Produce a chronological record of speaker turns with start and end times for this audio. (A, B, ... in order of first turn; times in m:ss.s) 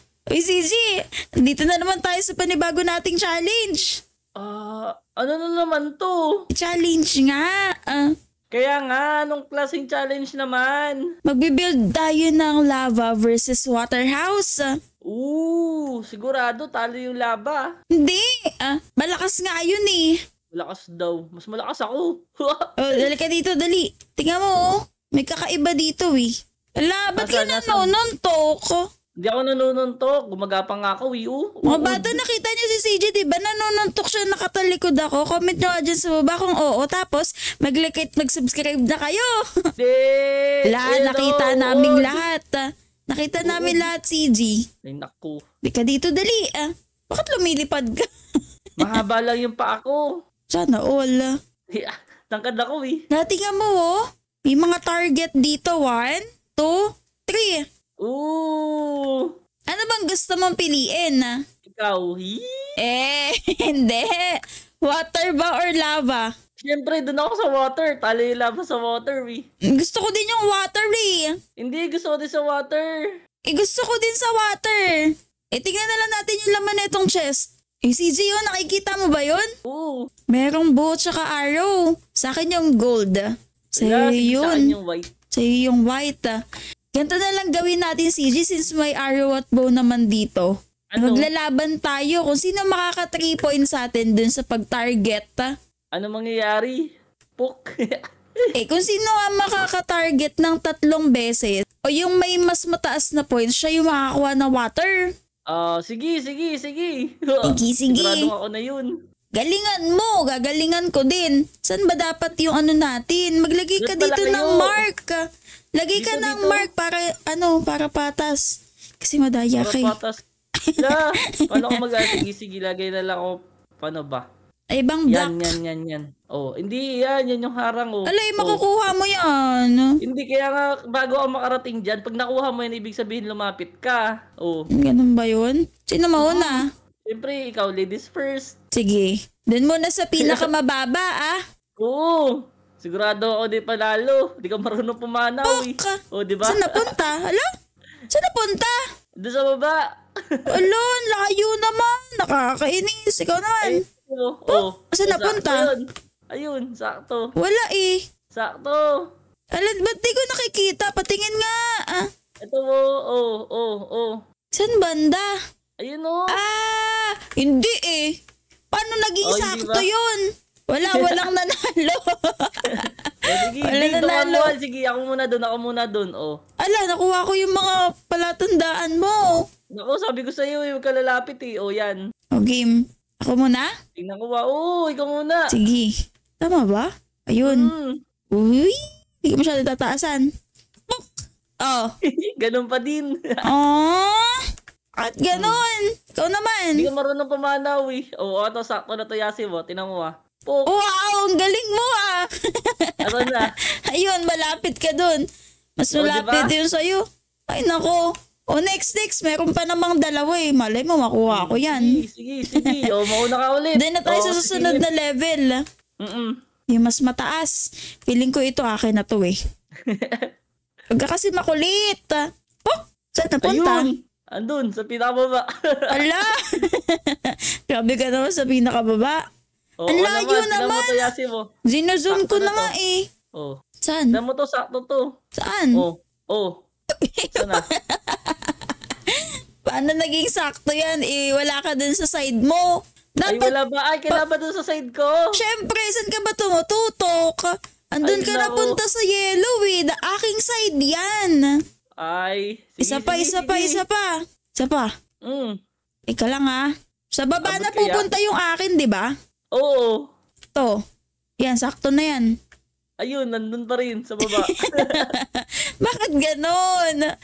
0:00.3-0:00.8 A
0:01.4-0:04.0 A
0:04.4-0:06.2 B
0:06.5-0:08.1 A
0:08.5-0:11.0 B
0:11.3-0:14.7 A
0:15.1-0:17.6 B
0:18.0-0:20.1 A
0:20.5-0:23.0 B
0:22.8-0:28.8 A
0:27.2-0:27.9 B
0:29.2-0:32.2 B
0:31.7-0:39.3 A
0:39.8-0:42.2 B
0:40.7-0:42.6 A
0:43.1-0:44.6 A
0:43.4-0:43.9 B
0:44.8-0:45.4 B
0:45.6-0:48.1 A
0:48.8-0:50.1 B
0:50.5-0:51.3 A
0:51.7-0:53.0 B
0:53.1-0:54.0 A
0:54.5-0:57.6 A
0:58.0-0:59.3 B
0:59.7-1:01.3 A
1:01.7-1:02.4 B
1:02.8-1:06.3 A
1:06.6-1:09.4 B
1:09.8-1:11.3 A
1:11.6-1:13.0 B
1:13.5-1:19.5 A
1:19.7-1:20.0 B
1:20.3-1:24.7 A
1:23.8-1:25.1 B
1:25.3-1:26.4 A
1:26.9-1:35.5 A
1:30.9-1:31.3 B
1:36.0-1:36.8 B
1:37.4-1:38.0 B
1:38.6-1:44.9 A
1:45.5-1:48.9 B
1:47.5-1:48.3 A
1:49.4-1:55.2 A
1:53.8-1:54.8 B
1:55.8-1:58.4 A
1:56.0-1:56.7 B
1:59.0-1:59.9 A
1:59.6-2:00.2 B
2:00.6-2:02.2 A
2:00.8-2:04.2 B
2:04.8-2:05.5 A
2:05.1-2:08.6 B
2:08.1-2:09.9 A
2:10.0-2:14.7 B
2:14.8-2:16.6 A
2:16.2-2:18.5 B
2:18.7-2:21.4 A
2:20.2-2:20.5 B
2:21.8-2:27.0 B
2:25.4-2:27.4 A
2:28.1-2:28.7 A
2:29.2-2:29.8 B
2:30.5-2:33.8 A
2:33.6-2:35.8 B
2:34.5-2:35.7 A
2:36.3-2:37.2 B
2:37.4-2:38.0 A
2:38.3-2:38.8 B
2:39.5-2:42.1 A
2:42.4-2:44.2 B
2:44.5-2:45.2 A
2:45.8-2:46.3 B
2:46.3-2:48.0 A
2:48.7-2:54.5 A
2:49.2-2:49.8 B
2:50.9-2:51.2 B
2:52.7-2:56.3 B
2:56.6-2:59.4 A
2:59.8-3:02.0 B
3:02.4-3:03.7 A
3:04.0-3:05.5 B
3:05.5-3:05.9 A
3:06.4-3:07.7 A
3:07.4-3:08.0 B
3:08.3-3:10.2 A
3:11.6-3:11.9 A
3:12.2-3:13.1 B
3:13.5-3:14.3 A
3:15.0-3:16.9 A
3:15.3-3:15.6 B
3:16.8-3:20.7 B
3:20.7-3:25.2 A
3:23.0-3:23.5 B
3:25.8-3:32.0 A
3:26.0-3:26.5 B
3:31.3-3:34.8 B
3:32.5-3:33.1 A
3:33.8-3:35.5 A
3:36.0-3:36.3 B
3:36.7-3:37.6 A
3:38.1-3:39.4 A
3:39.8-3:40.3 B
3:40.9-3:43.8 A
3:43.4-3:46.0 B
3:45.9-3:49.2 A
3:49.8-3:51.5 B
3:49.9-3:51.1 A
3:51.7-3:53.0 A
3:52.1-3:52.7 B
3:53.8-3:54.2 A
3:54.1-3:55.0 B
3:55.4-3:55.8 A
3:55.8-3:56.6 B
3:57.0-4:03.5 A
3:57.3-3:57.6 B
4:03.3-4:05.2 B
4:05.4-4:11.4 A
4:08.0-4:08.8 B
4:12.0-4:13.8 B
4:12.8-4:14.9 A
4:15.3-4:15.5 B
4:16.1-4:16.6 A
4:17.2-4:19.0 A
4:17.4-4:18.0 B
4:19.6-4:19.9 B
4:21.4-4:22.3 A
4:23.0-4:25.1 B
4:24.3-4:27.1 A